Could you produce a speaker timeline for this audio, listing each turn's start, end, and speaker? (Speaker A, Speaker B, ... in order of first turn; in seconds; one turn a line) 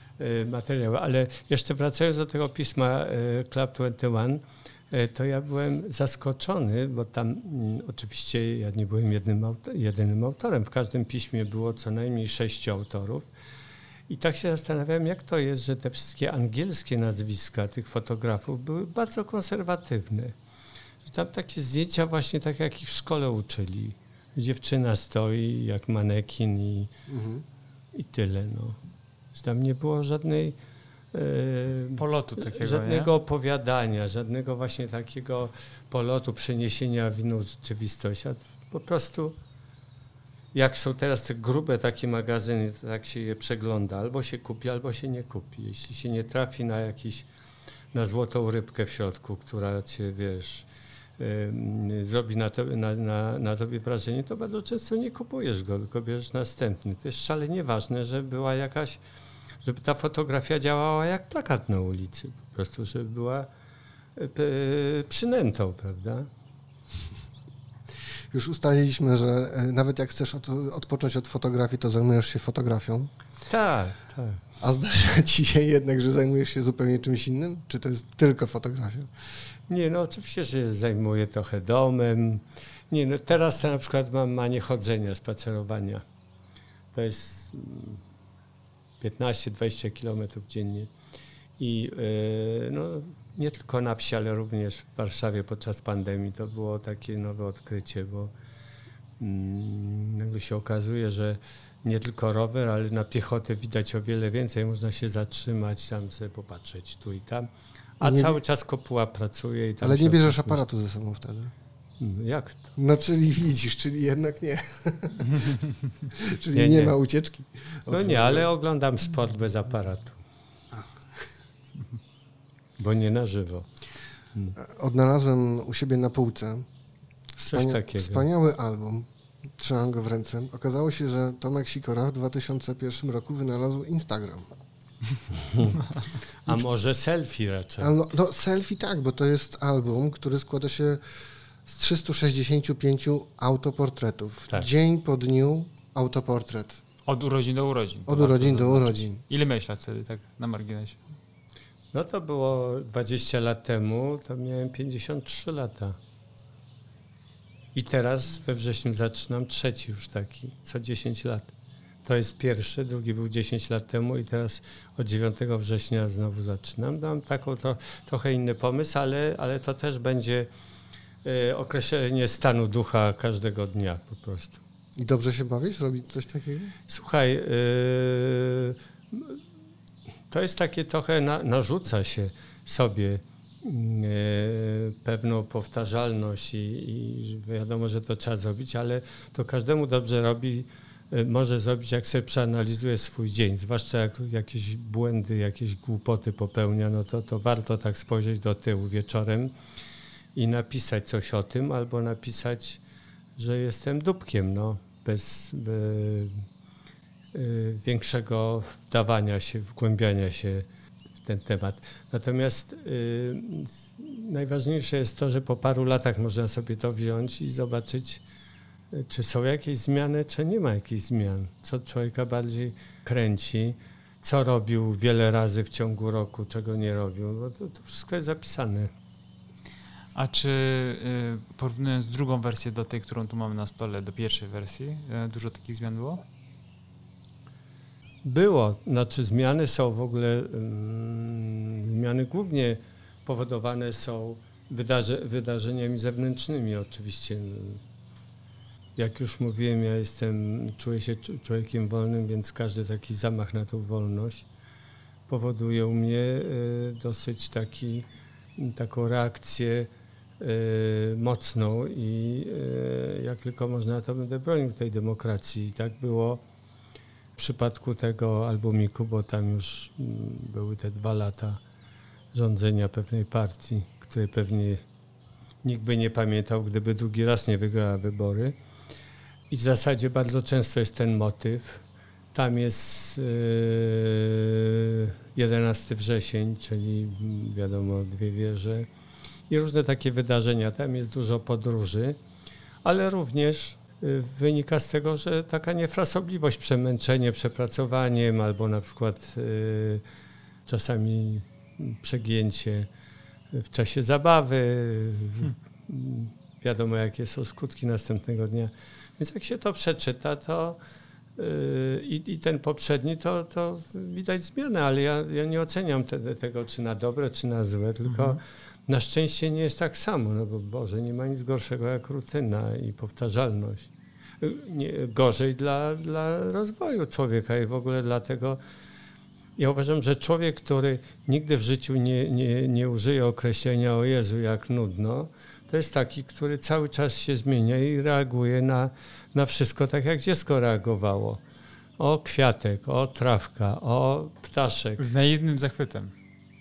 Speaker A: 0.2-13.3
Speaker A: 14.1-20.3
Speaker A: 21.0-26.9
Speaker B: 27.1-27.4
Speaker A: 27.9-28.8
Speaker A: 29.3-30.6
Speaker A: 31.1-39.4
Speaker C: 32.0-33.1
Speaker A: 40.5-47.3
Speaker A: 47.9-50.6
Speaker A: 51.2-59.0
Speaker A: 59.6-63.5
Speaker A: 64.2-66.3
Speaker B: 68.3-73.1
Speaker A: 73.5-74.4
Speaker B: 74.6-79.1
Speaker A: 79.7-86.0
Speaker A: 86.9-88.0
Speaker A: 89.0-90.9
Speaker A: 91.6-98.3
Speaker A: 99.2-110.6
Speaker B: 108.0-108.4
Speaker B: 109.8-111.5
Speaker A: 112.0-112.7
Speaker B: 112.8-115.5
Speaker B: 116.1-118.5
Speaker A: 116.5-117.0
Speaker A: 117.9-120.2
Speaker B: 120.7-121.2
Speaker A: 122.8-123.7
Speaker B: 124.6-126.7
Speaker A: 127.4-128.3
Speaker B: 127.4-134.5
Speaker A: 135.4-135.8
Speaker A: 136.4-137.9
Speaker B: 137.8-141.0
Speaker B: 141.7-146.8
Speaker C: 147.1-151.0
Speaker B: 148.1-149.2
Speaker A: 151.9-156.0
Speaker A: 157.7-161.5
Speaker A: 162.0-170.5
Speaker A: 171.2-174.6
Speaker B: 174.9-176.8
Speaker A: 176.9-179.4
Speaker A: 180.3-199.5
Speaker A: 200.3-202.8
Speaker A: 203.3-206.4
Speaker A: 207.3-210.7
Speaker A: 211.2-218.2
Speaker A: 218.9-228.9
Speaker C: 230.1-236.2
Speaker A: 238.2-247.8
Speaker A: 248.9-254.4
Speaker A: 255.3-266.4
Speaker A: 267.4-271.6
Speaker A: 272.3-274.8
Speaker A: 275.6-278.5
Speaker A: 279.5-288.9
Speaker A: 289.5-292.2
Speaker A: 292.8-300.0
Speaker A: 300.7-302.9
Speaker A: 303.5-310.8
Speaker A: 311.4-323.9
Speaker C: 318.1-318.4
Speaker A: 324.4-328.6
Speaker A: 329.6-341.4
Speaker A: 342.0-345.0
Speaker C: 345.0-346.1